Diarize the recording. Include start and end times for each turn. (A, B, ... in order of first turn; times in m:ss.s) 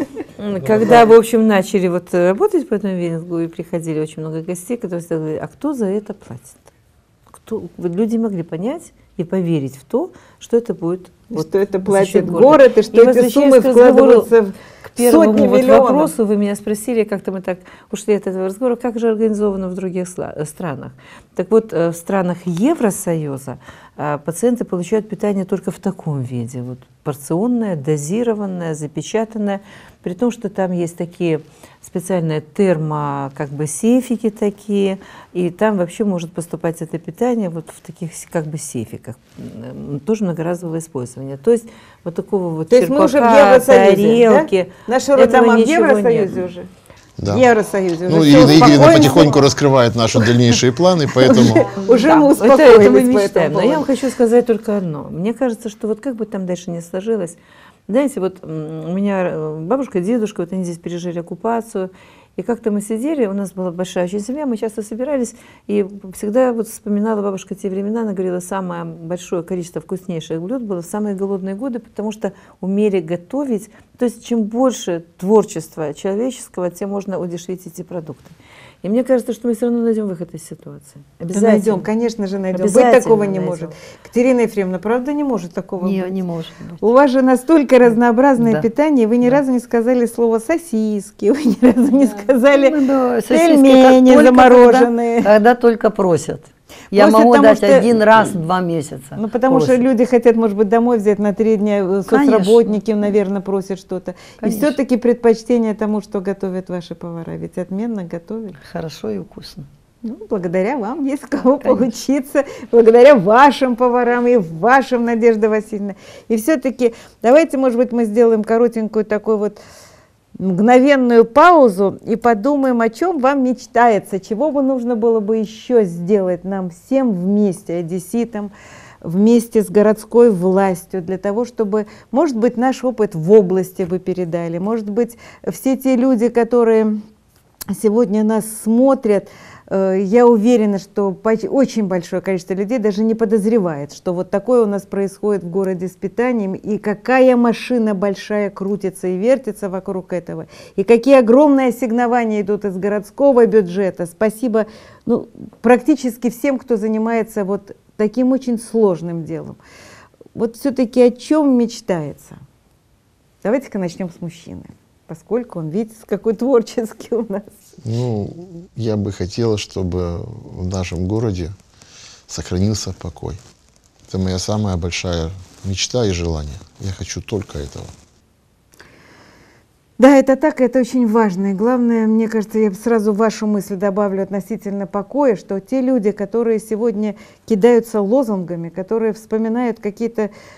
0:00.4-0:06.7 A
0:07.4-0:46.4 A
0:11.3-0:16.1 B
0:42.7-0:46.7 B
0:47.2-0:47.5 C
0:47.3-0:49.5 B
0:48.1-0:51.7 C
0:51.2-0:53.9 B
0:51.8-1:21.9 A
1:21.3-1:26.2 B
1:22.5-1:23.7 A
1:25.8-1:26.8 D
1:26.8-1:32.8 B
1:28.4-1:28.7 D
1:32.5-1:39.8 D
1:33.3-1:35.3 B
1:36.9-1:38.4 B
1:39.2-1:48.6 B
1:42.1-1:42.8 D
1:44.4-1:44.8 D
1:48.6-1:49.7 D
1:50.0-1:59.6 B
2:00.4-2:08.5 B
2:09.0-2:17.0 B
2:17.7-2:39.6 B
2:40.4-2:42.4 B
2:43.4-2:47.7 B
2:47.8-2:51.6 C
2:52.3-2:53.4 C
2:54.1-2:57.9 C
3:00.0-3:10.3 B